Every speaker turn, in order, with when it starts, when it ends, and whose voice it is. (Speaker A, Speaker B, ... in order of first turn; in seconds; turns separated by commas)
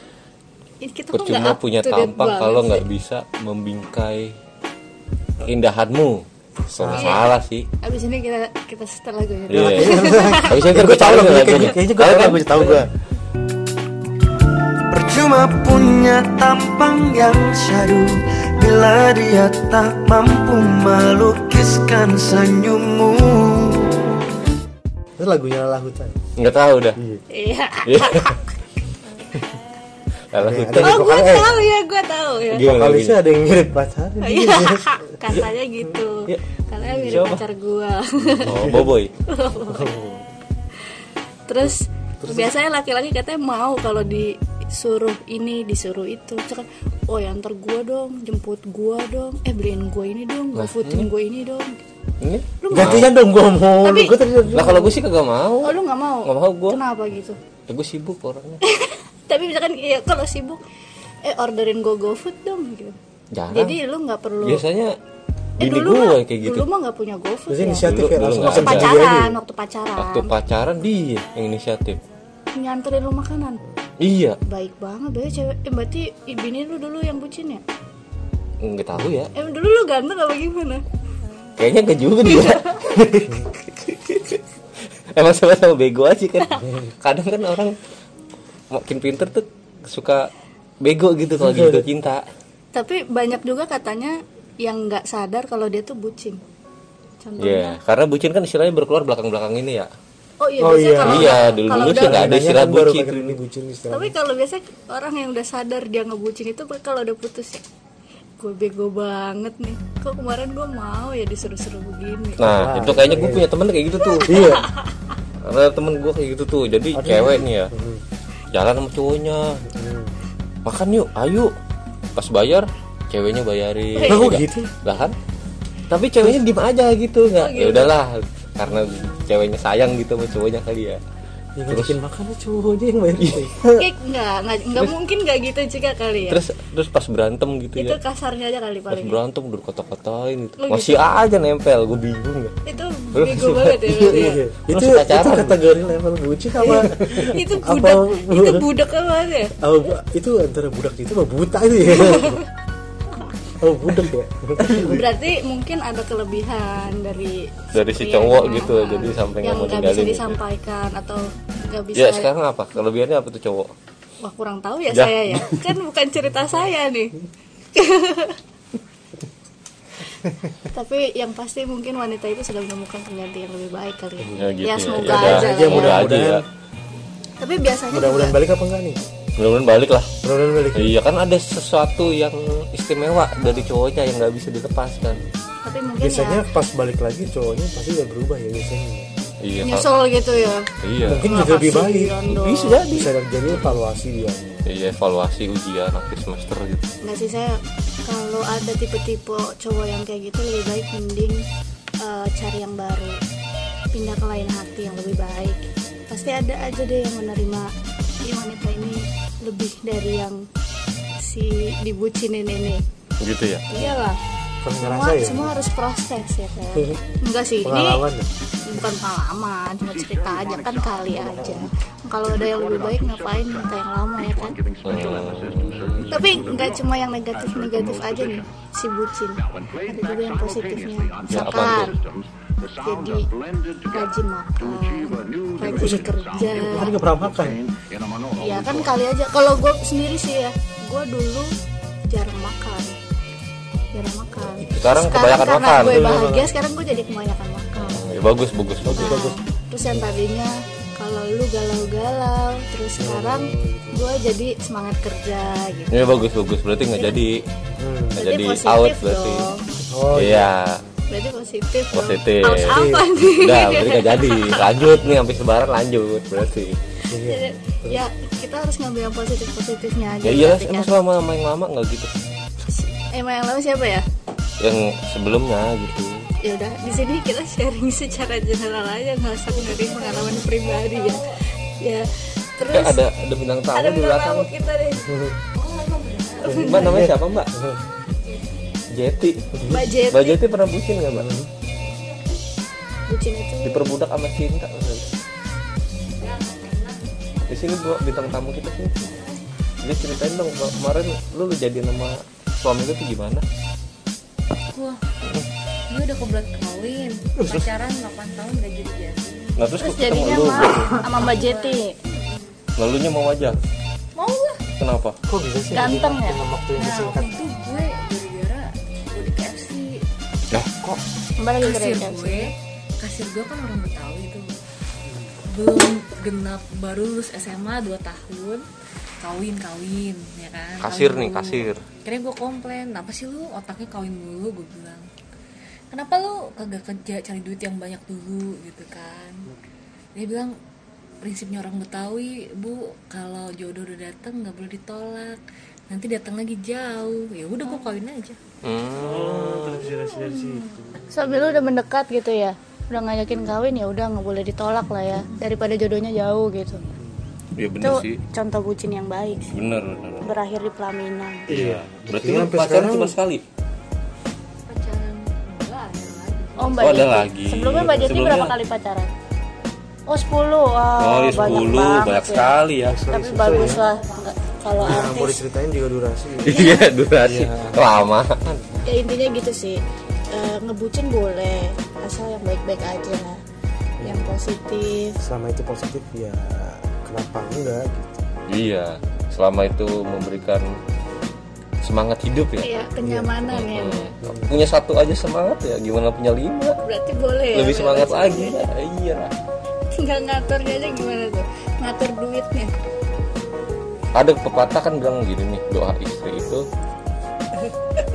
Speaker A: 0.8-2.8, Speaker B: 1.1-4.3, Speaker B: 5.4-7.7, Speaker C: 6.7-7.2, Speaker A: 6.9-7.3, Speaker A: 7.8-10.7, Speaker B: 9.5-12.9, Speaker C: 9.5-12.9, Speaker D: 14.9-24.0, Speaker C: 25.2-26.2, Speaker B: 26.4-27.0, Speaker C: 26.9-27.2, Speaker A: 27.3-28.4, Speaker B: 27.9-28.4, Speaker B: 30.3-31.1, Speaker C: 30.4-31.6, Speaker A: 30.8-32.7, Speaker B: 32.5-33.2, Speaker C: 32.5-35.4, Speaker A: 34.2-38.5, Speaker C: 36.8-37.4, Speaker B: 37.1-37.4, Speaker C: 38.3-39.0, Speaker B: 38.5-39.1, Speaker A: 39.3-39.9, Speaker C: 39.6-40.3, Speaker A: 41.5-51.8, Speaker C: 41.6-42.5, Speaker B: 50.5-51.0, Speaker B: 52.2-53.1, Speaker A: 52.6-53.1, Speaker C: 52.7-55.0, Speaker A: 53.8-54.2, Speaker B: 54.5-56.8, Speaker A: 55.6-57.4, Speaker B: 57.7-58.6, Speaker A: 58.6-60.6, Speaker A: 61.2-63.0, Speaker B: 63.3-63.8, Speaker A: 63.5-64.6, Speaker B: 64.4-64.9, Speaker B: 65.6-66.7, Speaker A: 65.6-67.8, Speaker C: 67.5-69.4, Speaker B: 67.8-69.0, Speaker A: 68.4-70.3, Speaker B: 70.0-72.0, Speaker A: 72.5-73.6, Speaker B: 74.0-74.4, Speaker A: 74.5-77.6, Speaker B: 78.6-79.3, Speaker C: 79.0-79.2, Speaker A: 79.3-80.8, Speaker B: 81.6-84.4, Speaker A: 82.2-82.8, Speaker C: 83.1-83.4, Speaker B: 85.1-87.8, Speaker B: 88.7-90.3, Speaker B: 90.8-92.2, Speaker C: 91.3-91.8, Speaker A: 92.7-96.4, Speaker A: 97.2-97.8, Speaker B: 97.4-99.9, Speaker A: 100.4-102.3, Speaker C: 100.6-104.1, Speaker B: 101.0-103.4, Speaker A: 103.9-107.6, Speaker A: 108.4-112.4, Speaker C: 112.4-113.5, Speaker B: 112.4-114.6, Speaker C: 114.2-114.7, Speaker B: 115.4-117.7, Speaker C: 116.9-118.0, Speaker B: 118.5-119.4, Speaker C: 119.7-120.2, Speaker B: 120.6-121.5, Speaker B: 122.1-125.1, Speaker A: 124.0-124.3, Speaker C: 124.0-124.7, Speaker B: 125.9-131.0, Speaker A: 127.3-127.9, Speaker C: 131.6-133.8, Speaker B: 131.7-132.0, Speaker B: 133.2-133.5, Speaker A: 133.8-136.4, Speaker B: 136.3-138.0, Speaker A: 137.8-139.2, Speaker B: 138.9-142.5, Speaker A: 140.6-141.1, Speaker A: 142.7-144.4, Speaker B: 143.1-145.6, Speaker C: 144.1-148.7, Speaker A: 146.6-149.5, Speaker B: 147.1-147.3, Speaker C: 149.6-152.4, Speaker A: 151.9-152.4, Speaker C: 153.6-155.1, Speaker A: 154.7-162.3, Speaker B: 157.7-160.4, Speaker B: 161.9-163.7, Speaker A: 164.2-167.2, Speaker B: 164.9-165.6, Speaker A: 167.7-168.4, Speaker A: 170.6-176.1, Speaker C: 174.2-174.4, Speaker B: 174.3-176.4, Speaker C: 175.0-176.4, Speaker A: 177.4-178.4, Speaker C: 177.9-179.0, Speaker B: 179.4-180.1, Speaker C: 180.2-180.9, Speaker B: 180.7-185.2, Speaker C: 183.4-183.7, Speaker A: 185.6-186.5, Speaker C: 186.0-189.1, Speaker B: 189.4-189.9, Speaker A: 189.6-190.7, Speaker B: 190.8-191.3, Speaker C: 191.0-192.2, Speaker A: 191.2-192.9, Speaker B: 192.3-193.8, Speaker C: 192.8-194.7, Speaker B: 194.7-196.9, Speaker A: 197.0-201.4, Speaker A: 202.0-203.2, Speaker A: 203.9-207.7, Speaker A: 208.2-210.4, Speaker A: 211.2-212.8, Speaker B: 213.2-213.6, Speaker A: 213.7-214.2, Speaker C: 214.6-215.5, Speaker A: 214.8-218.0, Speaker C: 216.7-217.0, Speaker C: 217.6-218.8, Speaker A: 218.7-224.6, Speaker D: 220.9-221.5, Speaker D: 222.5-223.0, Speaker D: 224.8-226.7, Speaker B: 224.8-226.1, Speaker A: 226.1-231.9, Speaker D: 227.7-228.2, Speaker D: 230.5-231.4, Speaker B: 231.3-231.9, Speaker A: 232.8-233.3, Speaker A: 233.9-237.0, Speaker D: 235.1-238.9, Speaker C: 235.6-237.6, Speaker A: 238.3-241.5, Speaker A: 242.1-242.9, Speaker A: 243.9-248.1, Speaker C: 244.6-245.0, Speaker B: 244.8-246.1, Speaker C: 245.8-246.5, Speaker B: 247.9-249.2, Speaker C: 248.8-249.4, Speaker A: 248.9-256.1, Speaker C: 253.0-254.1, Speaker B: 255.9-257.4, Speaker C: 257.8-258.2, Speaker B: 258.1-259.5, Speaker A: 258.2-259.6, Speaker C: 259.9-260.6, Speaker B: 260.1-260.8, Speaker A: 261.1-264.8, Speaker B: 261.9-266.8, Speaker C: 262.7-263.1, Speaker C: 267.1-268.1, Speaker A: 267.2-270.9, Speaker B: 270.2-272.1, Speaker A: 272.7-274.0, Speaker B: 274.6-276.3, Speaker A: 276.4-283.0, Speaker E: 279.5-281.4, Speaker B: 282.7-284.5, Speaker A: 283.7-285.1, Speaker C: 285.0-285.4, Speaker E: 285.6-286.8, Speaker C: 286.4-287.8, Speaker B: 286.6-287.5, Speaker B: 288.9-289.5, Speaker C: 289.5-289.9, Speaker A: 289.6-290.4, Speaker B: 290.1-291.3, Speaker C: 291.1-291.5, Speaker A: 293.1-293.8, Speaker B: 293.6-295.1, Speaker E: 296.2-297.0, Speaker B: 297.5-299.2, Speaker B: 299.8-303.4, Speaker E: 304.7-305.0, Speaker E: 305.9-309.6, Speaker C: 307.4-307.7, Speaker B: 309.6-310.9, Speaker A: 309.8-312.0, Speaker E: 310.6-312.4, Speaker B: 312.8-313.6, Speaker E: 314.1-314.7, Speaker B: 314.8-315.1, Speaker C: 315.3-317.4, Speaker A: 315.7-316.4, Speaker E: 316.7-320.0, Speaker B: 320.5-321.0, Speaker A: 321.4-322.5, Speaker E: 321.6-324.5, Speaker C: 325.1-325.4, Speaker E: 325.5-328.6, Speaker E: 329.2-335.1, Speaker B: 330.8-331.8, Speaker E: 335.9-339.5, Speaker E: 340.1-340.5, Speaker E: 341.2-348.4, Speaker B: 348.6-349.8, Speaker C: 349.0-351.5, Speaker A: 351.1-356.8, Speaker B: 357.6-358.2, Speaker A: 357.8-359.6, Speaker B: 359.5-360.3, Speaker A: 360.2-361.5, Speaker C: 361.5-363.1, Speaker B: 361.5-363.4, Speaker E: 364.7-367.1, Speaker A: 366.6-369.1, Speaker B: 366.8-368.5, Speaker C: 367.7-368.1, Speaker A: 370.1-372.6, Speaker B: 371.0-373.0, Speaker C: 371.3-371.8, Speaker C: 372.8-373.8, Speaker A: 373.1-375.4, Speaker C: 374.8-377.9, Speaker B: 376.4-378.8, Speaker A: 378.9-379.8, Speaker A: 380.3-383.4, Speaker C: 384.0-384.4, Speaker A: 384.0-385.2, Speaker C: 385.2-388.3, Speaker B: 388.5-390.6, Speaker B: 391.8-392.7, Speaker A: 392.6-394.1, Speaker C: 393.0-393.4, Speaker B: 393.5-396.8, Speaker C: 394.2-394.6, Speaker A: 396.8-398.6, Speaker B: 397.5-399.3, Speaker A: 399.9-402.7, Speaker B: 404.1-406.6